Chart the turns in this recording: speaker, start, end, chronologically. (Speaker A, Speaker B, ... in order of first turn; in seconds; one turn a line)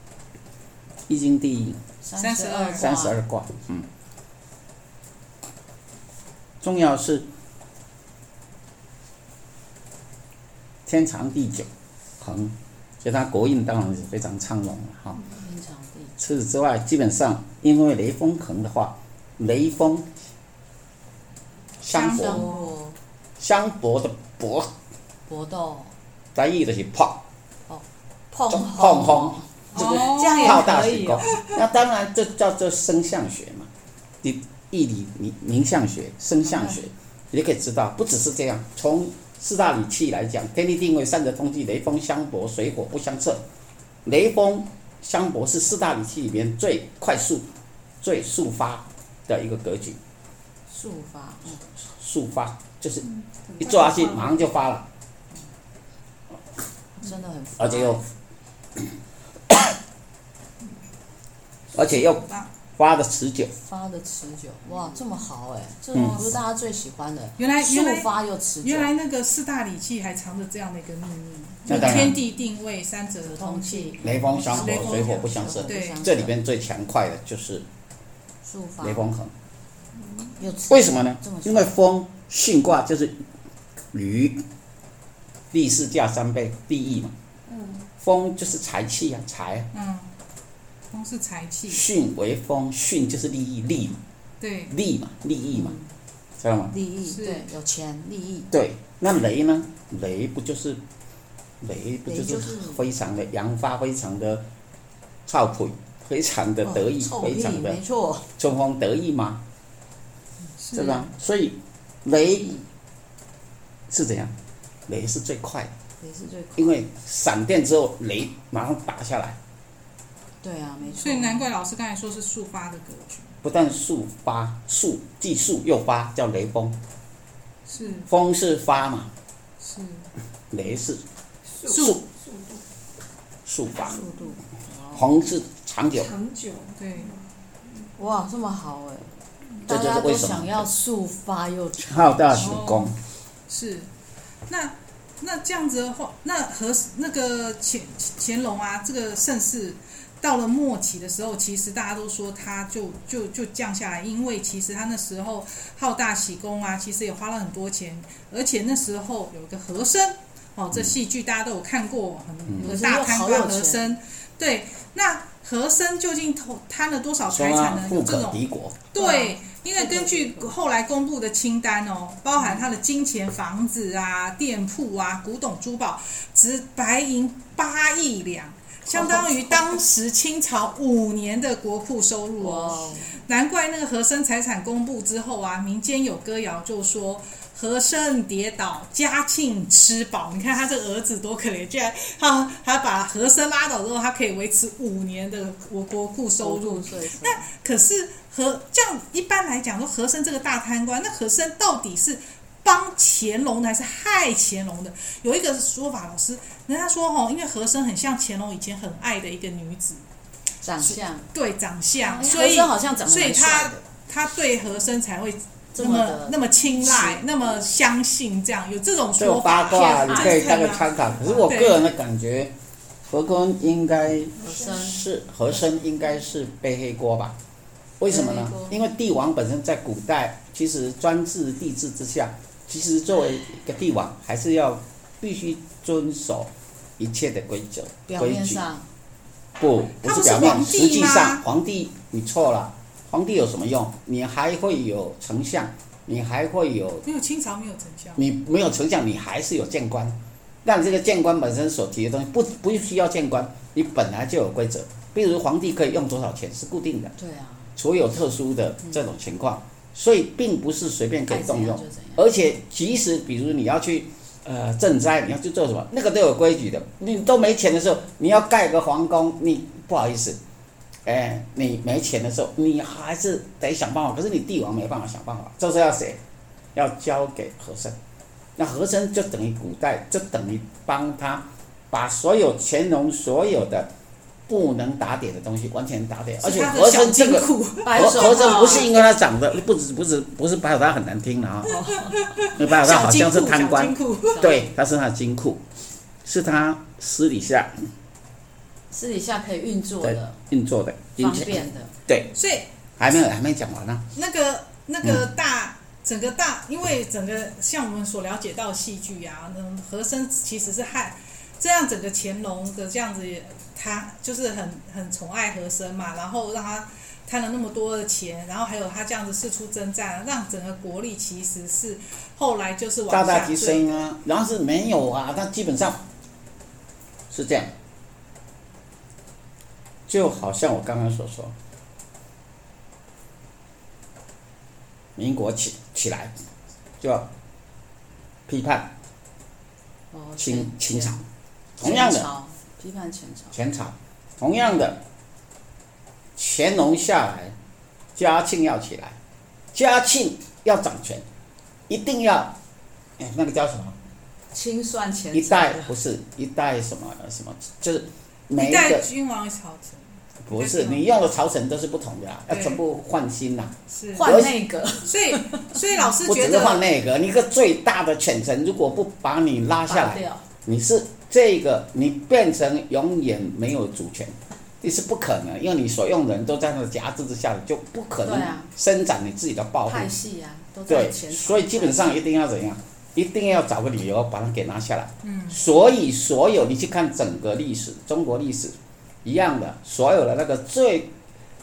Speaker A: 1.1-1.8
Speaker B: 2.0-3.2
Speaker C: 2.2-2.9
Speaker A: 2.8-3.9
Speaker A: 6.6-7.2
Speaker A: 10.9-11.7
Speaker A: 12.2-15.2
Speaker B: 15.2-16.1
Speaker A: 16.2-20.1
Speaker A: 21.8-22.5
Speaker C: 21.9-22.7
Speaker B: 22.0-23.0
Speaker A: 23.4-24.7
Speaker B: 25.3-25.9
Speaker A: 26.4-27.2
Speaker B: 27.7-31.5
Speaker A: 28.5-33.7
Speaker C: 29.7-30.6
Speaker A: 34.2-43.4
Speaker B: 36.4-36.8
Speaker A: 44.0-47.5
Speaker A: 48.0-50.0
Speaker B: 50.7-51.6
Speaker A: 51.9-53.1
Speaker D: 53.2-54.5
Speaker A: 53.6-54.9
Speaker B: 57.0-58.0
Speaker A: 57.6-58.0
Speaker A: 61.7-62.2
Speaker C: 62.0-62.5
Speaker A: 62.8-63.5
Speaker B: 63.6-68.9
Speaker A: 65.9-66.3
Speaker C: 66.0-66.4
Speaker C: 67.4-68.1
Speaker C: 68.6-76.0
Speaker B: 71.6-72.2
Speaker A: 71.7-72.2
Speaker B: 73.2-76.3
Speaker A: 74.0-77.7
Speaker B: 78.4-79.1
Speaker A: 78.8-79.3
Speaker D: 80.0-80.3
Speaker B: 80.4-81.7
Speaker A: 80.7-83.2
Speaker A: 83.9-84.4
Speaker A: 85.5-87.1
Speaker D: 87.5-87.9
Speaker A: 88.0-89.7
Speaker C: 89.7-90.1
Speaker C: 90.9-91.8
Speaker A: 91.7-94.0
Speaker C: 94.4-94.7
Speaker A: 94.7-95.8
Speaker B: 95.5-95.9
Speaker A: 96.4-96.8
Speaker B: 96.7-98.5
Speaker C: 97.1-97.4
Speaker A: 98.5-100.8
Speaker A: 101.6-104.5
Speaker B: 102.1-102.8
Speaker A: 105.2-107.8
Speaker B: 106.6-108.3
Speaker A: 108.4-109.4
Speaker C: 110.6-111.1
Speaker A: 110.7-112.6
Speaker A: 113.9-114.3
Speaker A: 114.9-115.7
Speaker B: 116.0-116.8
Speaker A: 116.6-119.4
Speaker B: 120.4-121.5
Speaker C: 121.0-123.3
Speaker A: 123.4-126.8
Speaker C: 127.7-128.1
Speaker A: 128.1-129.1
Speaker C: 129.6-130.1
Speaker A: 130.5-131.0
Speaker D: 131.5-132.6
Speaker C: 131.7-132.0
Speaker A: 131.7-132.0
Speaker A: 133.5-134.0
Speaker B: 133.8-135.1
Speaker A: 134.9-136.1
Speaker D: 135.9-137.9
Speaker C: 136.8-137.1
Speaker B: 138.0-142.4
Speaker A: 139.7-140.7
Speaker A: 141.9-142.9
Speaker C: 142.3-142.9
Speaker C: 143.5-143.9
Speaker C: 144.5-210.1
Speaker B: 162.6-163.8
Speaker A: 167.3-168.8
Speaker B: 169.0-170.5
Speaker B: 172.4-172.6
Speaker B: 178.9-179.7
Speaker B: 182.4-183.2
Speaker B: 196.4-197.5
Speaker B: 210.6-211.3
Speaker C: 210.8-221.8
Speaker B: 212.0-213.8
Speaker B: 215.8-217.2
Speaker A: 219.2-222.5
Speaker B: 219.8-220.8
Speaker A: 223.1-227.4
Speaker B: 224.3-225.0
Speaker D: 224.4-224.9
Speaker A: 228.0-238.6
Speaker B: 228.1-228.8
Speaker B: 238.1-238.9
Speaker A: 239.6-247.1
Speaker C: 240.0-241.4
Speaker C: 247.0-248.2
Speaker A: 248.2-257.1
Speaker B: 257.2-257.7
Speaker A: 257.8-270.4
Speaker B: 261.3-262.2
Speaker A: 271.1-276.2
Speaker A: 276.8-278.0
Speaker A: 278.6-283.9
Speaker A: 284.5-291.8
Speaker C: 286.4-288.9
Speaker B: 287.8-288.9
Speaker B: 291.7-292.4
Speaker C: 291.8-294.4
Speaker A: 292.6-295.6
Speaker B: 294.3-294.7
Speaker A: 296.2-297.7
Speaker B: 298.9-300.4
Speaker A: 300.0-302.3
Speaker B: 301.2-301.9
Speaker C: 302.4-302.7
Speaker A: 303.0-304.1
Speaker C: 304.1-324.1
Speaker A: 323.1-326.0
Speaker A: 327.3-327.7
Speaker A: 330.1-331.6
Speaker A: 335.1-336.3
Speaker A: 337.0-337.3
Speaker A: 338.5-338.9
Speaker B: 340.1-341.2
Speaker A: 340.4-341.2
Speaker A: 341.8-342.3
Speaker B: 341.8-343.6
Speaker A: 343.5-345.0
Speaker A: 346.4-347.6
Speaker A: 348.1-349.2
Speaker A: 349.7-351.2
Speaker A: 351.9-352.6
Speaker A: 353.2-354.0
Speaker B: 354.5-355.9
Speaker A: 355.3-359.1
Speaker C: 358.6-361.1
Speaker A: 360.5-364.6
Speaker C: 362.5-362.8
Speaker C: 363.9-364.4
Speaker B: 364.1-365.9
Speaker C: 365.1-366.9
Speaker A: 366.2-380.1
Speaker B: 369.9-370.4
Speaker B: 378.2-378.7
Speaker B: 379.9-382.2
Speaker A: 380.9-391.1
Speaker C: 385.2-385.6